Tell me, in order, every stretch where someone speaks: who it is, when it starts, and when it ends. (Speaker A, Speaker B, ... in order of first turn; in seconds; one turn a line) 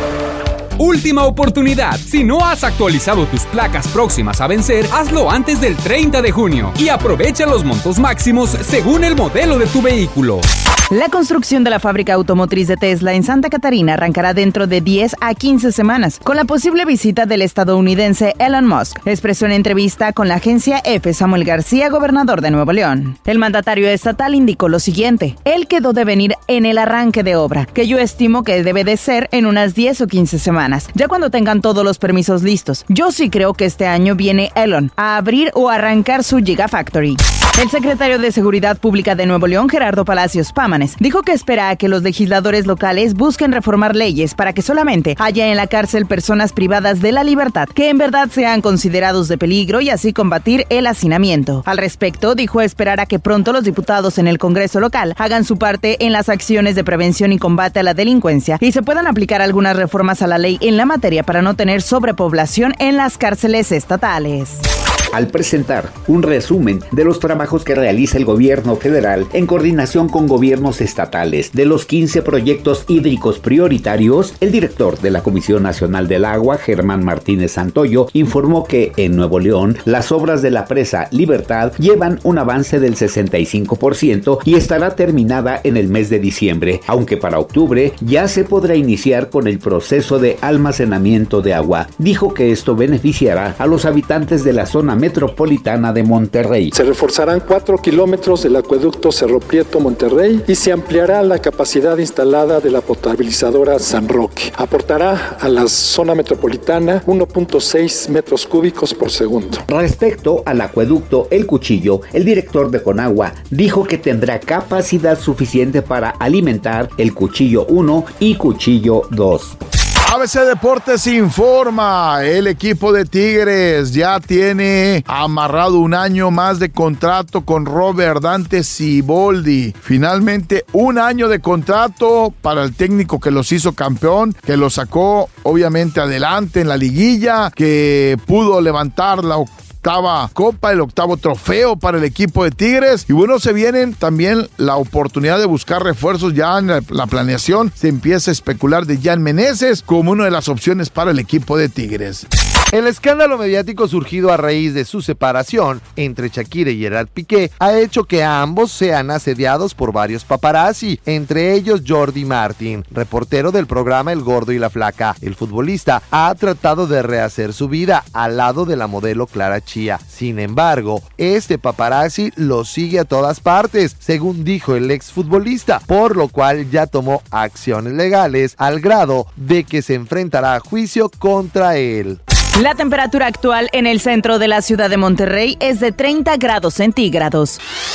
Speaker A: 0.8-10.4
Speaker B: 10.9-64.6
Speaker C: 65.1-96.7
Speaker D: 96.7-109.6
Speaker C: 109.7-119.5
Speaker E: 120.0-152.2
Speaker F: 152.7-182.2
Speaker B: 182.5-187.6